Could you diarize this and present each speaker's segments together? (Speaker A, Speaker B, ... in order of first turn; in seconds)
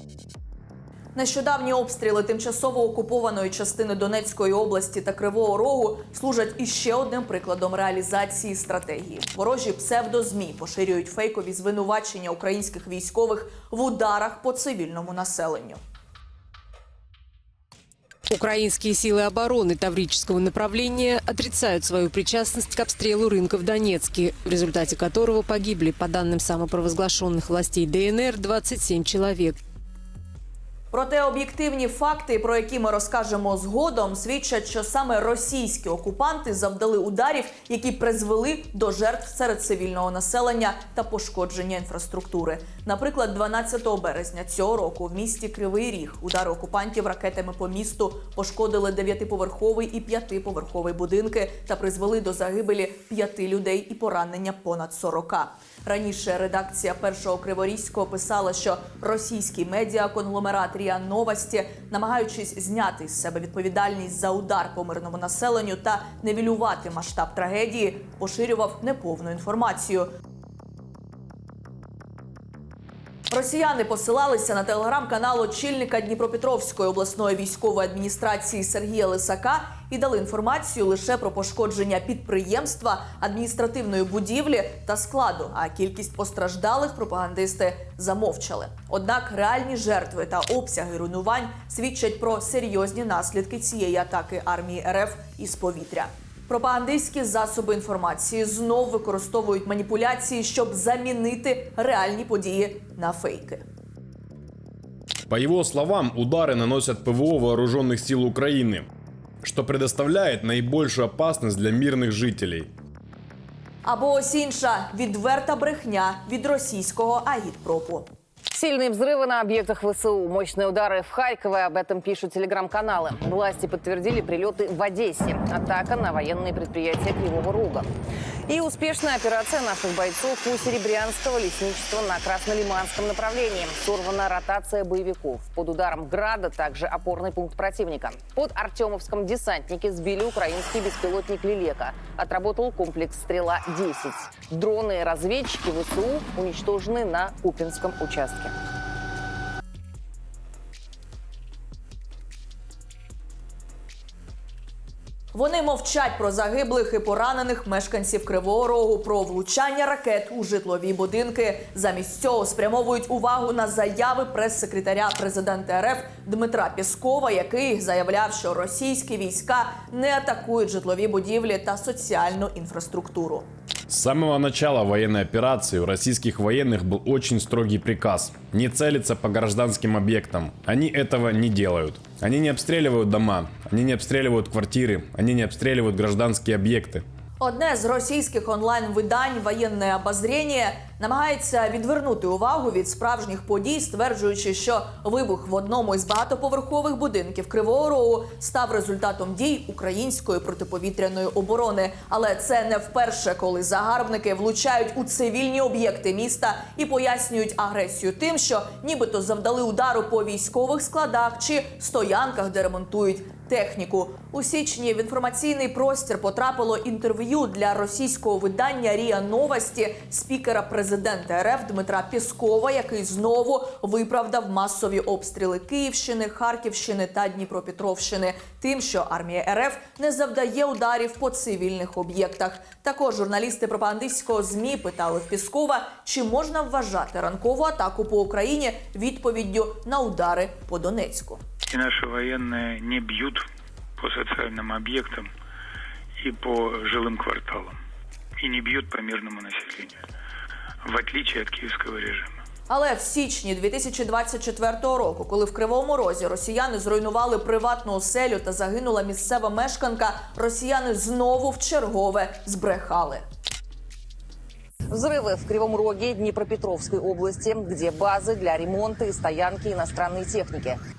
Speaker A: 1.1-15.8, 30.9-70.1, 73.3-103.6, 113.8-118.1, 155.3-173.4, 187.4-241.4, 252.7-263.2
Speaker B: 18.3-29.6
Speaker C: 105.3-108.9, 109.4-112.7, 173.9-187.0
Speaker D: 118.5-127.9, 128.5-148.5, 264.9-270.8
Speaker E: 241.7-243.4, 244.0-245.3, 246.2-247.8, 248.4-249.9, 250.8-252.3